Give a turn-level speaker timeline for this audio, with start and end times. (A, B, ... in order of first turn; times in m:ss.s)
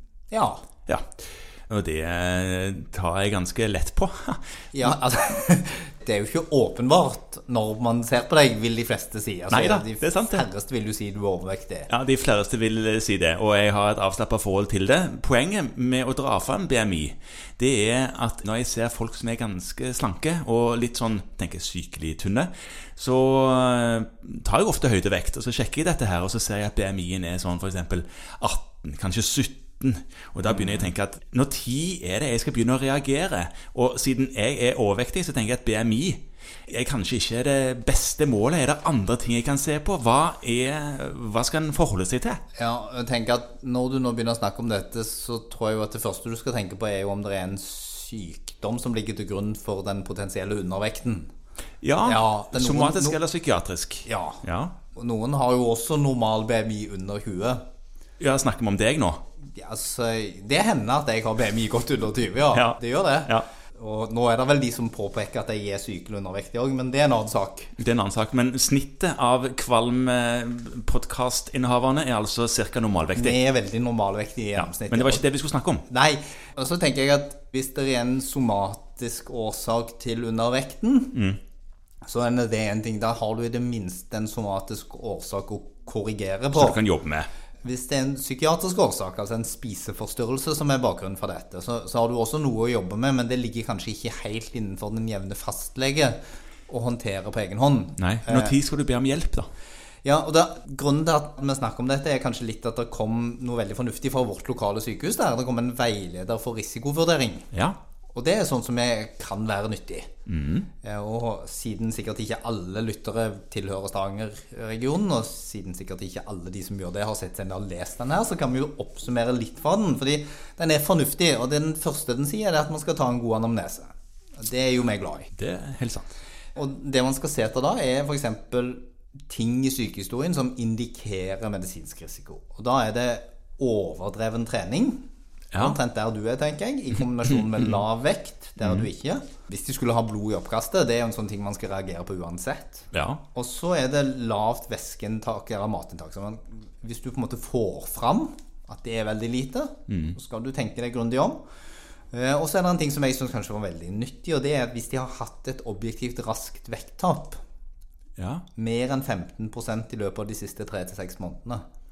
0:00.3-0:00.6 A
0:01.7-0:04.9 B
0:04.7-0:11.9 A
0:09.5-0:10.4 B
0:11.9-0:42.4 B
0:42.6-0:51.3 A
0:51.8-0:54.8 B
0:52.0-0:53.2 A
0:54.1-0:57.6 A
0:58.2-0:59.2 B
0:59.6-1:07.8 A
1:02.5-1:03.4 B
1:07.8-1:13.4 B
1:13.2-1:15.2 A
1:14.6-1:15.8 B
1:15.9-1:21.2 A
1:21.1-1:21.4 B
1:22.0-1:26.8 A
1:26.5-1:27.3 B
1:27.6-1:38.6 A
1:38.0-1:39.5 B
1:40.0-1:47.5 A
1:47.5-1:47.8 B
1:48.1-1:50.1 A
1:50.3-1:50.7 B
1:50.8-2:05.3 A
2:05.3-2:06.1 B
2:06.6-2:15.0 A
2:15.6-2:31.4 A
2:18.6-2:18.9 B
2:22.9-2:23.2 B
2:29.9-2:30.2 B
2:32.1-2:37.4 A
2:38.2-2:38.4 B
2:38.6-2:41.6 A